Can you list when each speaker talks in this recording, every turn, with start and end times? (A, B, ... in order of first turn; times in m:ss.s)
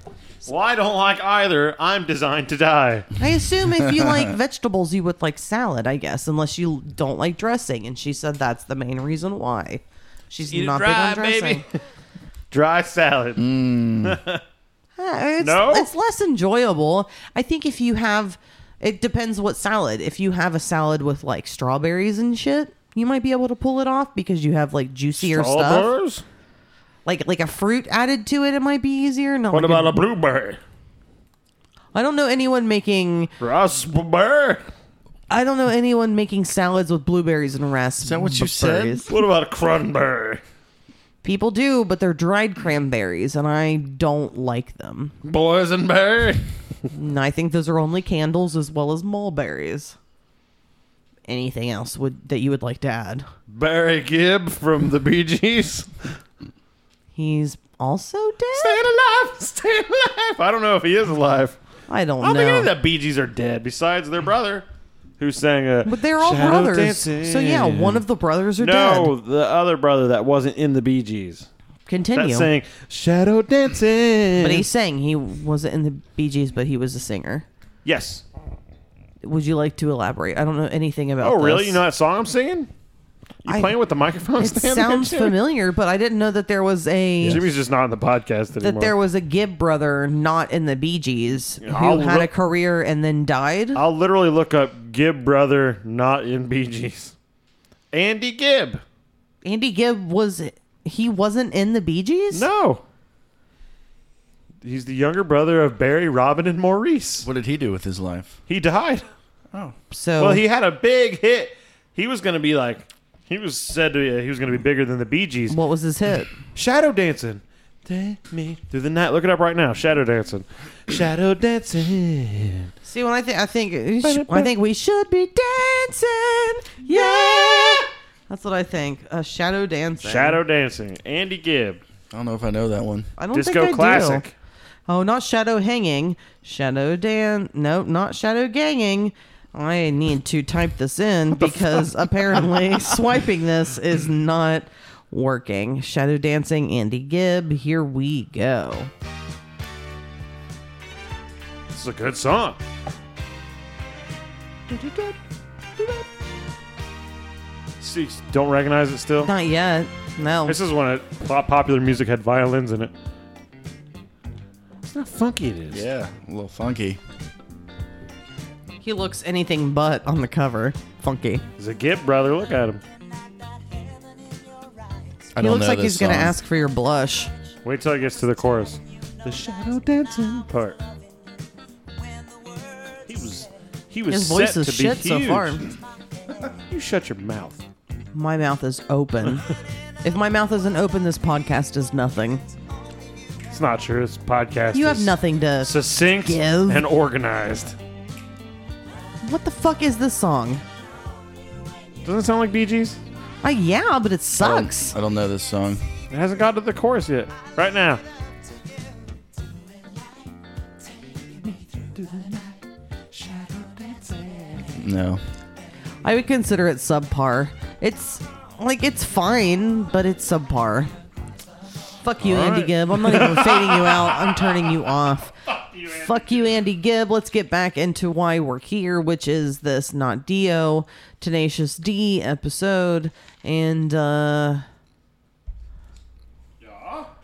0:00.4-0:03.1 A
0:03.2-0:11.6 B
0:10.5-0:11.6 A
0:12.5-0:14.4 A
0:13.4-0:14.2 C
0:15.0-0:25.9 B
0:15.4-0:15.9 A
0:25.2-0:26.2 A
0:27.0-0:29.9 B
0:29.5-0:30.6 A
0:31.9-0:33.3 B
0:33.4-0:34.6 A
0:35.3-0:39.1 B
0:38.0-0:39.0 C
0:39.1-0:40.4 A
0:41.2-0:45.2 B
0:45.2-0:46.4 A
0:46.9-0:50.0 B
0:51.3-0:53.3 B
0:53.5-0:55.9 A
0:57.2-0:58.8 B
0:58.5-1:01.6 A
1:01.9-1:02.7 B
1:02.2-1:04.6 A
1:05.2-1:08.0 A
1:05.8-1:09.1 B
1:08.6-1:11.5 A
1:11.9-1:12.5 B
1:12.1-1:14.6 A
1:14.4-1:17.4 B
1:17.8-1:18.2 A
1:19.2-1:21.8 B
1:21.2-1:22.7 A
1:23.4-1:25.4 A
1:23.5-1:23.7 B
1:24.4-1:27.4 B
1:27.2-1:28.9 A
1:28.6-1:33.8 B
1:31.6-1:32.3 A
1:33.7-1:37.1 A
1:37.9-1:38.8 A
1:39.4-1:42.5 B
1:42.3-1:42.8 A
1:44.6-1:47.3 A
1:47.2-1:48.4 C
1:48.5-1:49.0 A
1:49.9-1:50.4 B
1:50.2-1:55.6 A
1:55.5-1:56.3 B
1:56.5-2:02.7 A
2:02.8-2:10.4 B
2:04.0-2:04.5 A
2:06.9-2:07.8 A
2:10.0-2:11.8 A
2:12.1-2:13.1 C
2:13.2-2:14.2 B
2:13.3-2:14.3 A
2:14.9-2:28.9 B
2:21.4-2:22.9 A
2:31.7-2:32.6 A
2:34.7-2:35.2 A
2:35.8-2:36.0 A
2:37.8-2:39.3 A
2:39.2-2:40.6 B
2:40.4-2:42.9 A
2:44.9-2:45.8 A
2:45.7-2:47.0 C
2:48.8-2:51.4 B
2:51.6-2:52.8 A
2:55.3-2:56.4 C
2:55.4-2:57.3 B
2:57.6-3:00.8 A
3:03.0-3:05.6 A
3:04.1-3:05.6 B
3:06.7-3:07.6 A
3:08.1-3:09.5 B
3:10.0-3:12.4 B
3:13.5-3:17.8 A
3:14.7-3:16.8 B
3:19.2-3:20.6 B
3:22.0-3:23.0 A
3:23.4-3:24.9 B
3:24.4-3:25.8 C
3:26.1-3:28.0 A
3:31.5-3:32.5 A
3:33.1-3:34.8 A
3:34.8-3:35.2 C
3:36.0-3:40.9 B
3:42.0-3:45.4 B
3:42.2-3:44.9 A
3:45.5-3:46.5 A
3:45.9-3:54.6 B
3:56.6-3:57.1 A